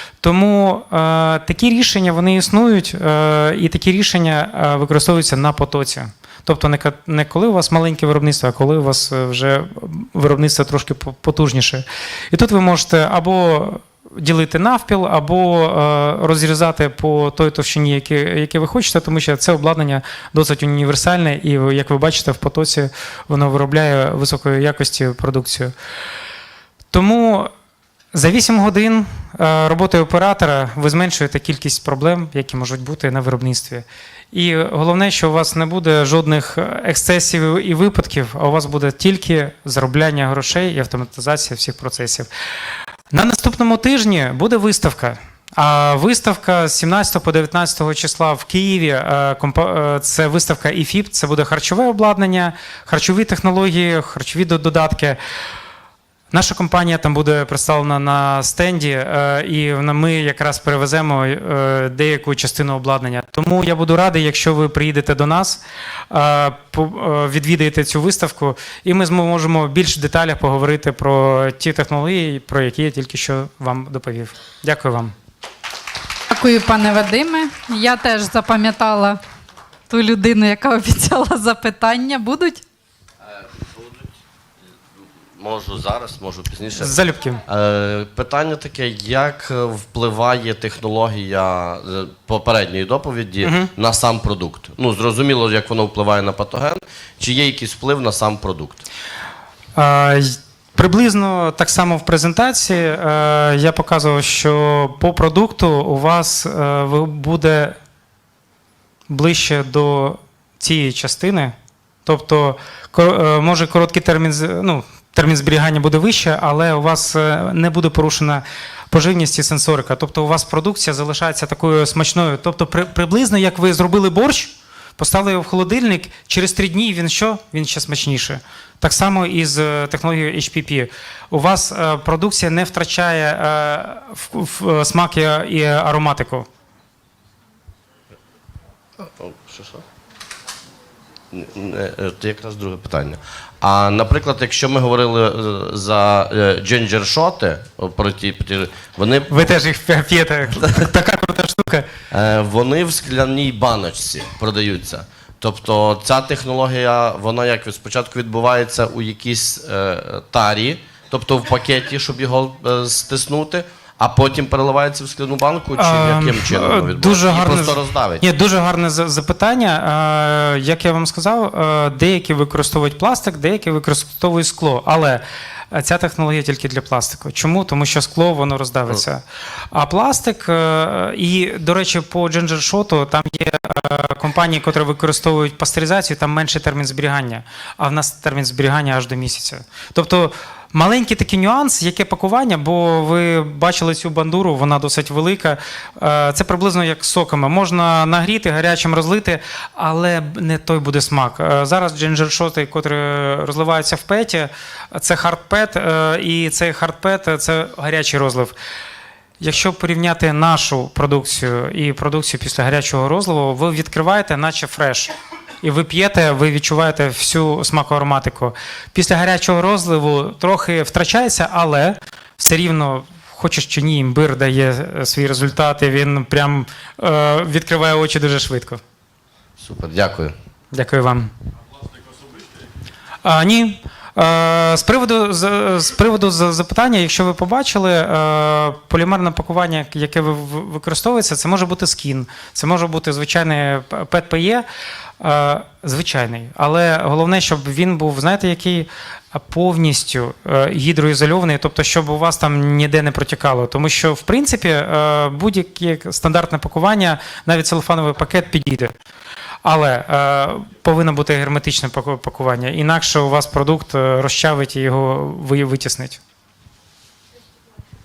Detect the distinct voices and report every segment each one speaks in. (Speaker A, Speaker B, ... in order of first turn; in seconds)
Speaker A: 0.2-25.7, 26.9-27.5, 28.1-42.3, 43.1-55.2, 56.3-75.1, 86.8-87.4, 93.4-93.7, 99.8-107.7, 109.1-136.5, 149.3-151.9, 165.8-208.5, 209.4-228.8, 230.7-231.3, 233.2-244.6, 245.2-258.9, 259.6-266.2
Speaker B: 76.3-79.2, 79.9-82.6
Speaker C: 83.6-84.0, 85.4-98.8, 139.2-139.8, 141.3-149.4, 152.1-168.2, 229.6-230.3